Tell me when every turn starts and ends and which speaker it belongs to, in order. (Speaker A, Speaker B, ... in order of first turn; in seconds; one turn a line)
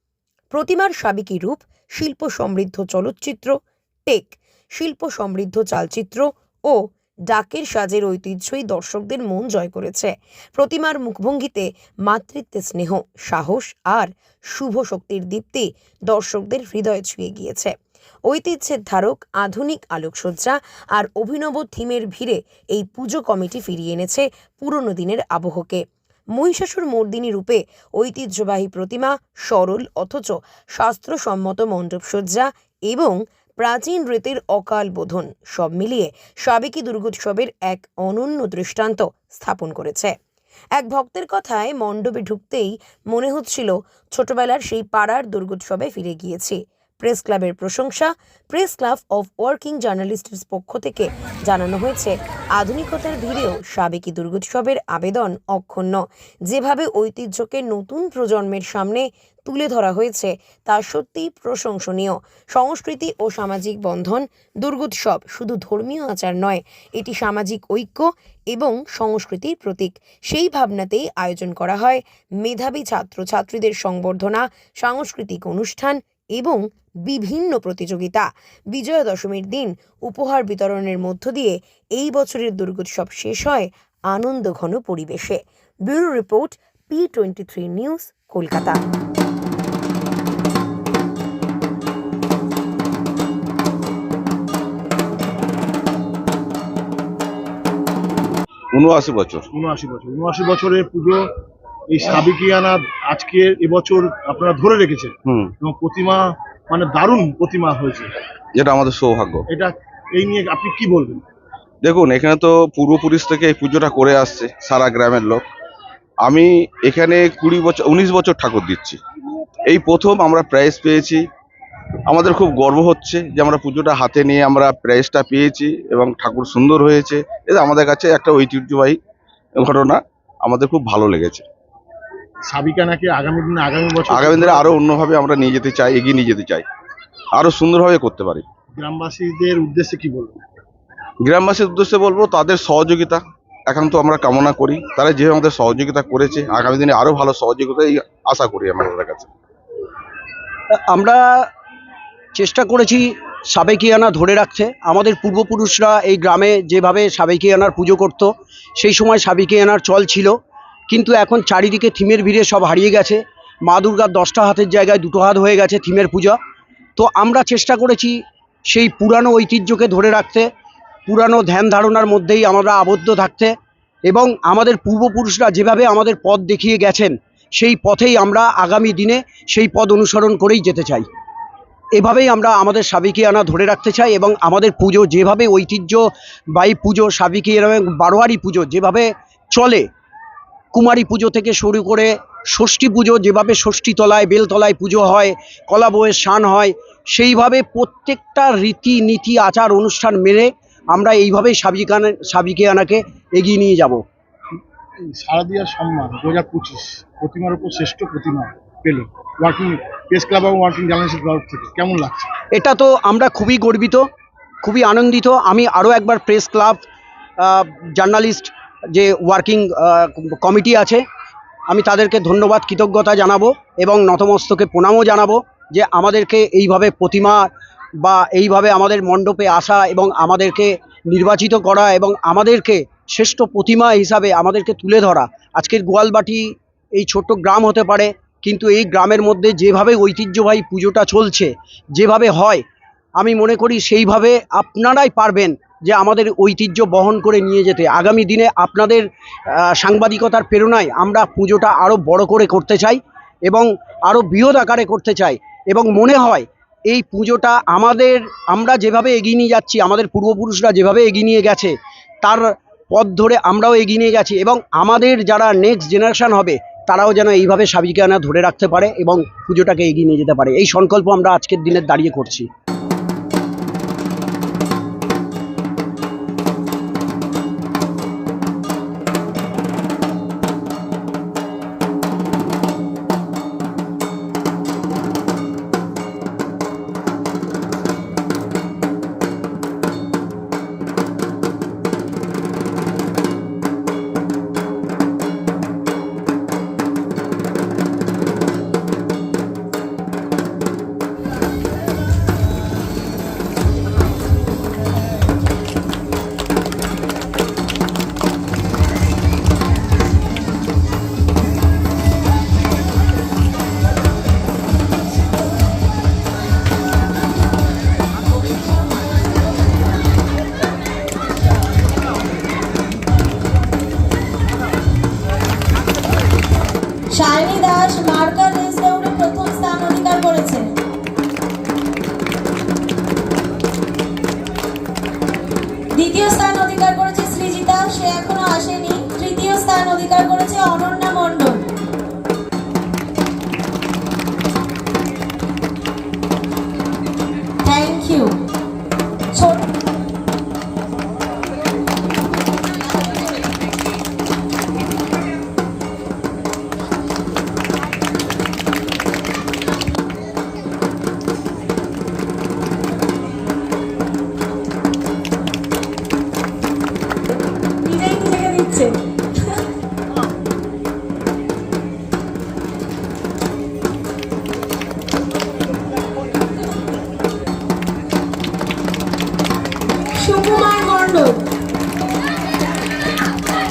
Speaker A: 0.5-17.7
Speaker A: 18.3-25.8
Speaker A: 26.3-40.1
Speaker A: 40.8-88.8
Speaker B: 98.7-99.5
Speaker C: 99.5-101.3
Speaker C: 101.9-108.1
Speaker B: 105.2-105.5
Speaker B: 108.5-109.4
Speaker C: 109.5-111.2
Speaker B: 111.8-115.4
Speaker B: 116.2-119.0
Speaker B: 119.7-121.2
Speaker B: 122.1-129.0
Speaker B: 129.6-131.4
Speaker C: 132.5-134.8
Speaker B: 134.1-136.7
Speaker B: 137.3-138.4
Speaker C: 138.8-140.4
Speaker B: 141.2-149.3
Speaker D: 150.7-151.5
Speaker D: 152.3-160.3
Speaker D: 160.9-166.4
Speaker D: 167.0-170.5
Speaker D: 171.1-173.5
Speaker D: 174.1-181.1
Speaker D: 181.9-189.8
Speaker D: 190.7-204.0
Speaker C: 205.0-212.3
Speaker D: 212.5-214.1
Speaker D: 214.6-216.8
Speaker D: 217.4-221.0
Speaker D: 221.7-227.5
Speaker D: 228.0-242.6
Speaker D: 243.2-272.5
Speaker E: 327.1-330.8
Speaker E: 335.9-341.7
Speaker E: 347.6-348.4
Speaker E: 349.3-349.7
Speaker E: 367.8-369.6
Speaker E: 380.1-381.4